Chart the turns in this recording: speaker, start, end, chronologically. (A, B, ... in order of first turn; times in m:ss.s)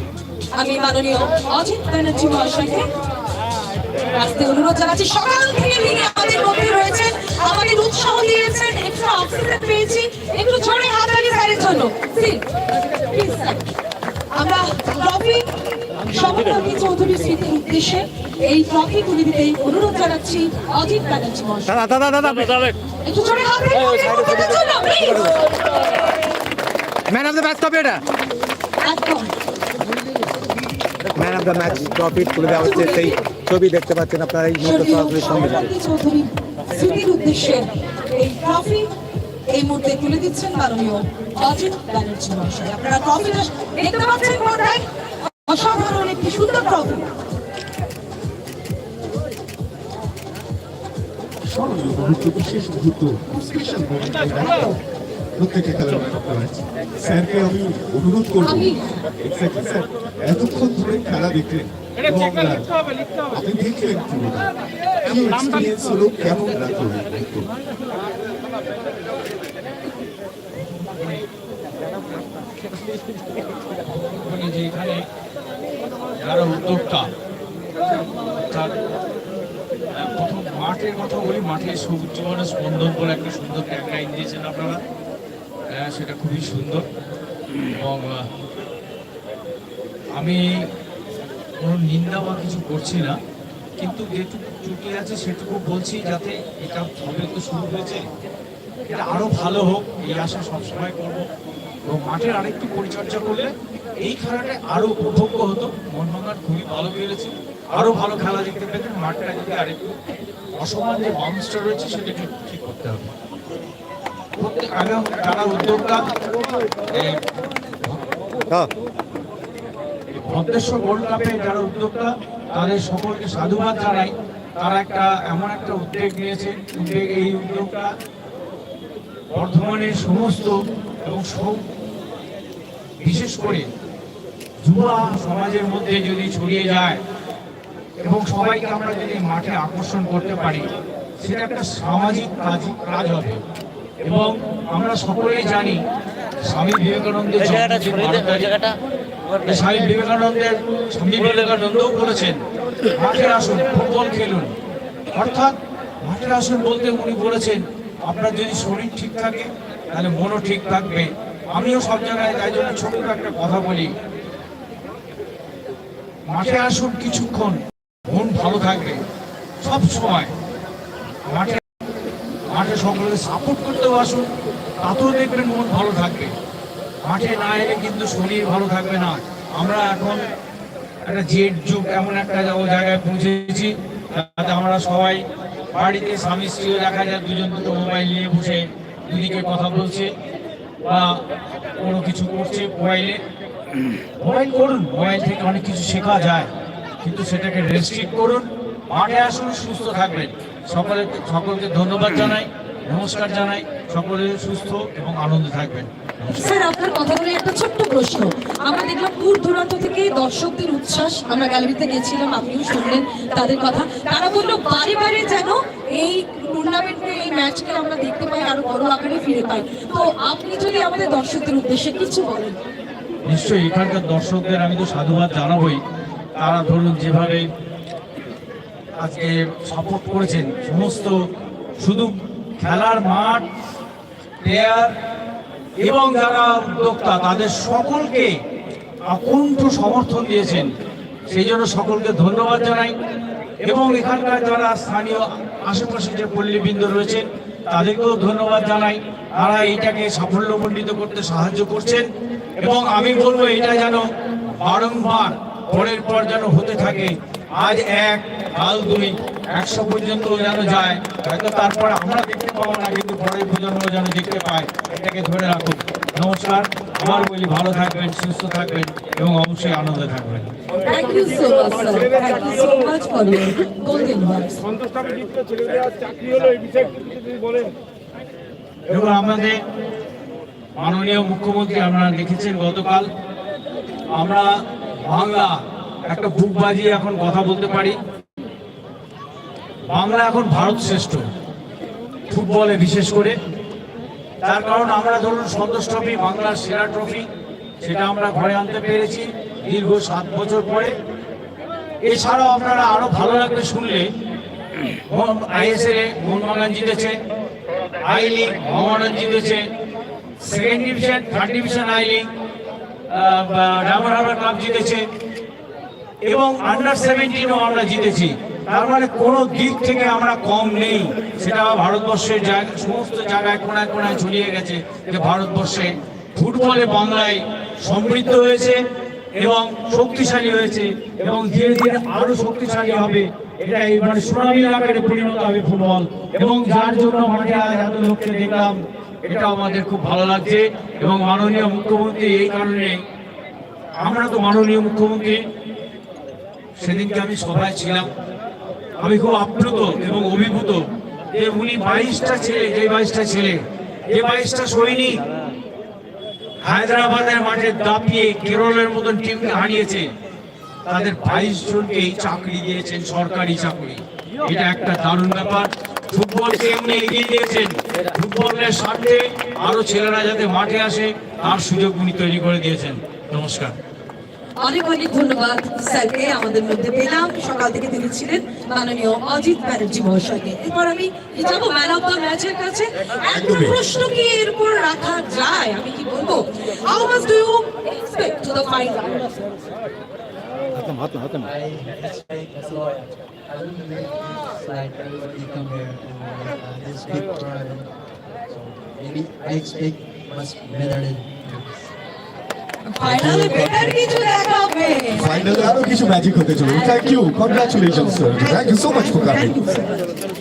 0:00.5-0:02.9 A
0:04.1-0:12.4 A
0:13.1-0:13.6 A
0:14.3-0:15.4 A
0:16.1-0:21.8 A
0:21.7-0:22.7 B
0:23.0-0:25.4 A
0:27.1-0:28.0 B
0:28.8-0:29.3 A
0:31.2-0:35.7 B
0:32.4-0:33.3 A
0:34.6-0:38.9 A
0:39.5-0:47.0 A
0:51.4-0:54.8 C
0:55.4-1:02.7 C
0:58.4-0:58.9 A
1:03.3-1:04.5 C
1:05.0-1:07.5 C
1:10.6-1:11.2 D
1:13.9-1:15.0 D
1:16.2-1:17.1 D
1:18.4-1:18.7 D
1:20.0-1:24.8 D
1:25.7-1:26.9 D
1:27.6-1:28.3 D
1:30.1-1:30.4 D
1:31.6-1:33.2 D
1:33.8-1:38.0 D
1:38.9-1:41.2 D
1:41.9-1:43.5 D
1:44.0-1:49.9 D
1:50.6-1:53.1 D
1:54.4-1:56.1 D
1:56.9-1:57.2 D
2:00.1-2:07.9 D
2:09.3-2:11.6 D
2:13.0-2:13.7 D
2:14.6-2:17.0 D
2:18.0-2:23.4 D
2:24.0-2:25.8 D
2:26.4-2:28.7 D
2:29.4-2:32.4 D
2:33.0-2:34.5 D
2:35.1-2:43.9 D
2:46.3-2:49.0 D
2:49.6-2:50.3 D
2:51.3-2:51.6 D
2:52.5-2:54.3 D
2:54.8-2:56.3 D
2:57.0-3:00.2 D
3:01.0-3:05.2 D
3:05.7-3:10.1 D
3:10.8-3:11.2 D
3:11.8-3:13.2 D
3:14.2-3:16.5 D
3:17.0-3:26.5 D
3:26.3-3:42.6 A
3:43.2-3:45.8 D
3:46.4-3:47.4 D
3:49.0-3:51.2 D
3:51.8-3:53.4 D
3:54.4-3:54.9 D
3:55.8-3:58.3 D
3:59.0-4:00.7 D
4:01.3-4:02.9 D
4:03.6-4:30.5 D
4:30.8-4:34.6 A
4:38.9-4:39.6 D
4:40.8-4:43.1 D
4:44.1-4:44.5 D
4:45.0-4:48.0 D
4:49.9-4:51.2 D
4:52.3-4:53.4 D
4:54.4-4:57.3 D
4:57.8-5:00.9 D
5:02.0-5:04.1 D
5:05.1-5:07.2 D
5:08.0-5:09.6 D
5:10.4-5:12.3 D
5:13.1-5:15.0 D
5:16.2-5:28.8 D
5:29.4-5:43.0 D
5:44.0-5:45.4 D
5:46.8-5:48.1 D
5:49.0-5:55.2 D
5:56.6-6:00.1 D
6:00.8-6:13.8 D
6:14.6-6:29.3 A
6:23.3-6:23.8 C
6:30.7-6:31.5 B
6:31.4-6:37.9 E
6:38.4-6:41.8 E
6:42.8-6:46.0 A
6:43.0-6:44.0 C
6:45.1-6:49.5 C
6:46.6-6:50.1 A